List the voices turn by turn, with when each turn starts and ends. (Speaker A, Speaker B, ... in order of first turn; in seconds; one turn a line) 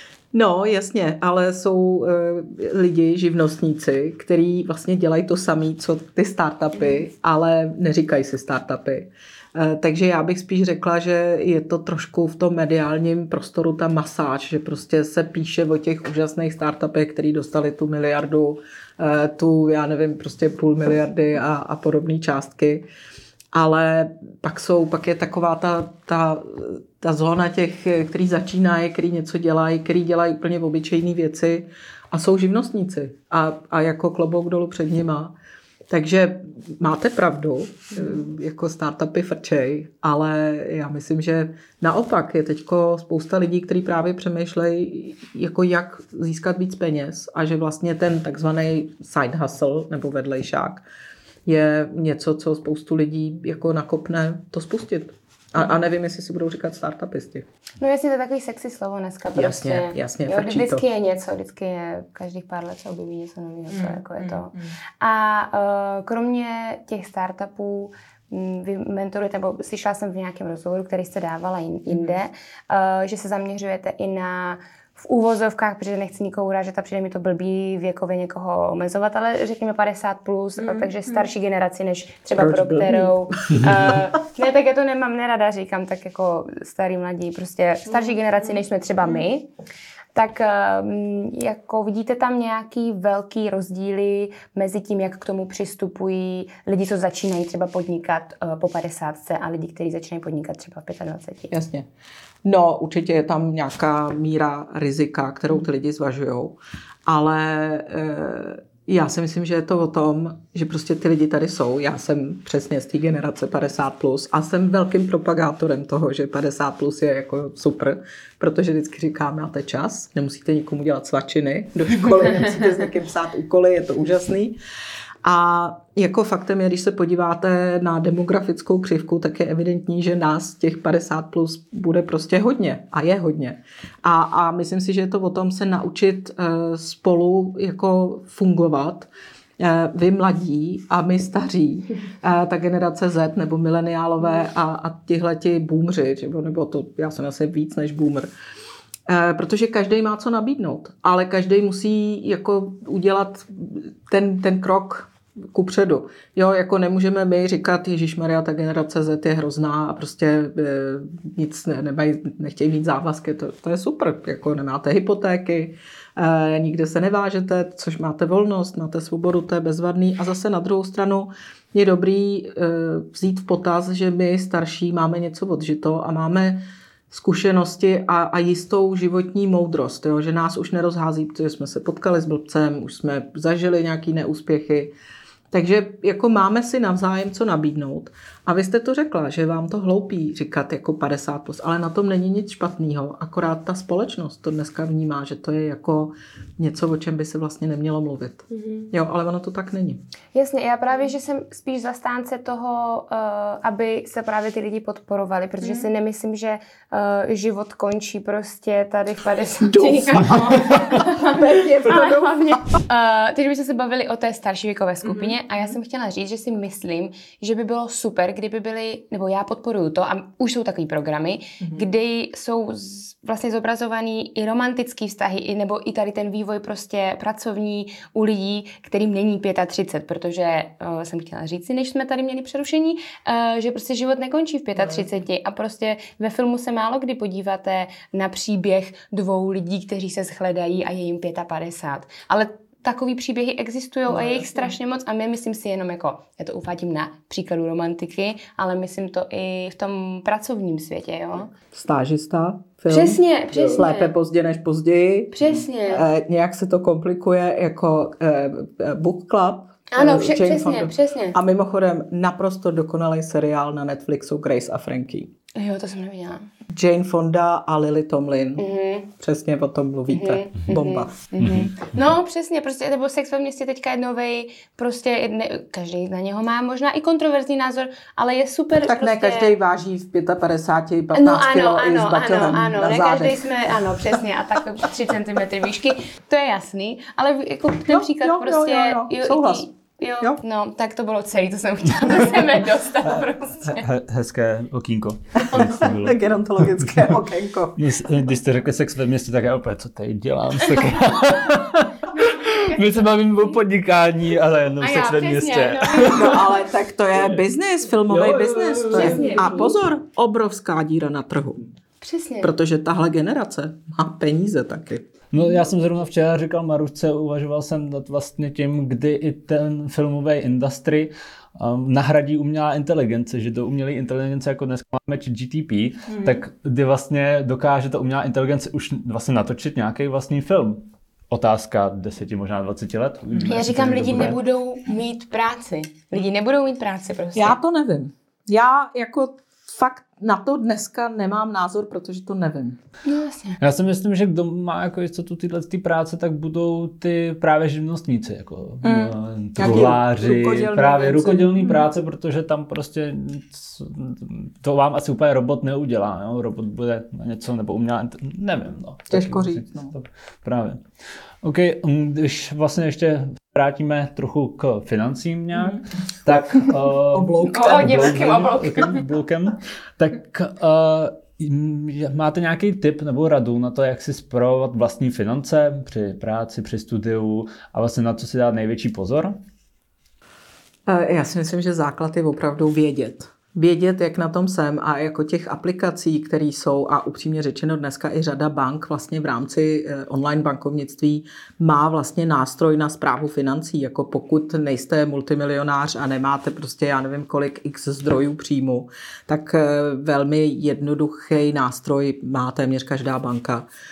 Speaker A: 0.3-22.9
Speaker A: 23.5-35.3
Speaker A: 35.9-50.8
Speaker A: 51.5-57.5
Speaker B: 57.8-89.5
Speaker A: 59.3-60.8
Speaker A: 63.7-64.7
Speaker A: 80.6-81.2
Speaker A: 82.3-84.0
Speaker B: 90.1-101.5
Speaker A: 101.5-101.8
Speaker A: 102.4-124.6
Speaker A: 125.2-148.3
Speaker A: 149.1-184.9
Speaker A: 185.5-200.0
Speaker B: 198.5-198.9
Speaker B: 200.3-251.5
Speaker A: 209.6-212.7
Speaker A: 215.0-215.4
Speaker A: 221.6-221.8
Speaker A: 234.8-235.0
Speaker A: 244.1-244.7
Speaker A: 251.7-265.3
Speaker B: 252.9-254.1
Speaker B: 255.3-256.1
Speaker B: 259.9-261.4
Speaker B: 265.5-266.4
Speaker A: 266.7-268.6
Speaker B: 268.6-269.1
Speaker A: 269.2-271.2
Speaker B: 270.1-279.5
Speaker C: 271.4-271.9
Speaker A: 278.8-283.4
Speaker B: 281.1-293.9
Speaker A: 287.9-289.7
Speaker C: 293.7-297.1
Speaker A: 295.4-297.9
Speaker C: 297.8-306.5
Speaker B: 304.8-306.6
Speaker A: 306.1-311.6
Speaker C: 308.1-309.4
Speaker B: 308.9-309.7
Speaker B: 312.0-312.5
Speaker A: 312.4-315.0
Speaker C: 315.3-334.4
Speaker B: 333.4-337.6
Speaker A: 337.3-342.8
Speaker B: 343.0-343.6
Speaker C: 343.6-360.8
Speaker A: 348.8-351.9
Speaker A: 359.1-359.9
Speaker C: 361.4-379.4
Speaker A: 365.5-368.3
Speaker B: 367.4-369.0
Speaker A: 380.9-403.7